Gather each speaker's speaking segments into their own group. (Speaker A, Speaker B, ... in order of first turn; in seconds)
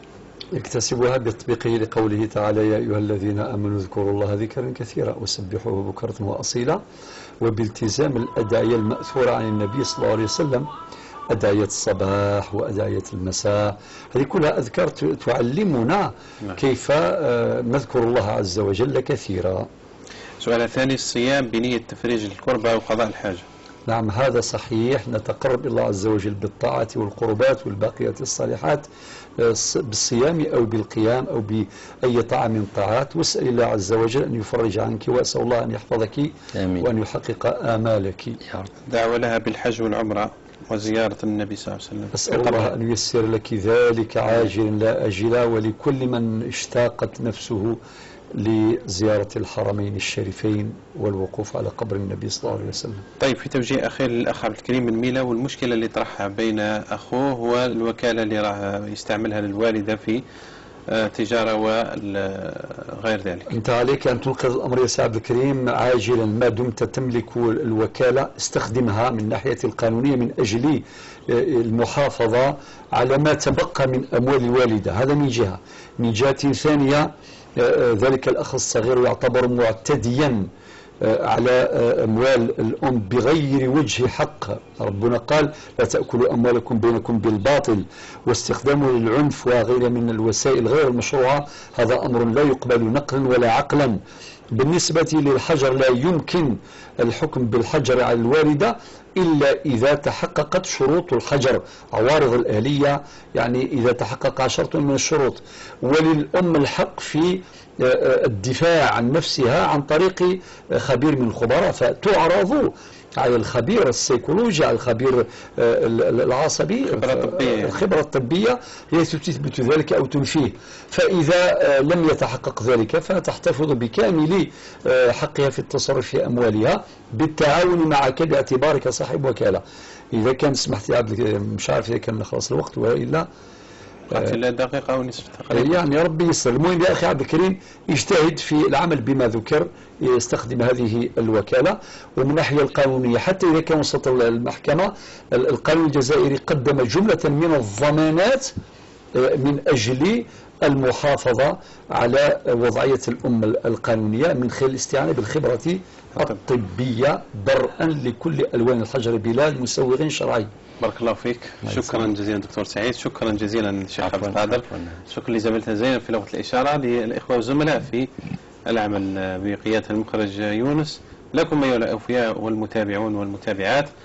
Speaker A: 0.5-6.8, 7.4-10.7, 11.3-19.7, 23.9-28.9, 29.4-38.4, 42.1-47.8, 48.4-53.0, 63.5-80.5, 81.0-94.0, 94.5-133.3, 135.5-148.5, 149.2-160.5
Speaker B: 20.4-23.4, 38.9-42.7, 53.2-60.2, 60.9-63.5, 116.9-117.8, 134.1-135.8, 160.8-168.1, 168.7-173.9
Speaker C: 36.5-36.9, 38.4-38.7, 161.6-162.1, 164.0-165.0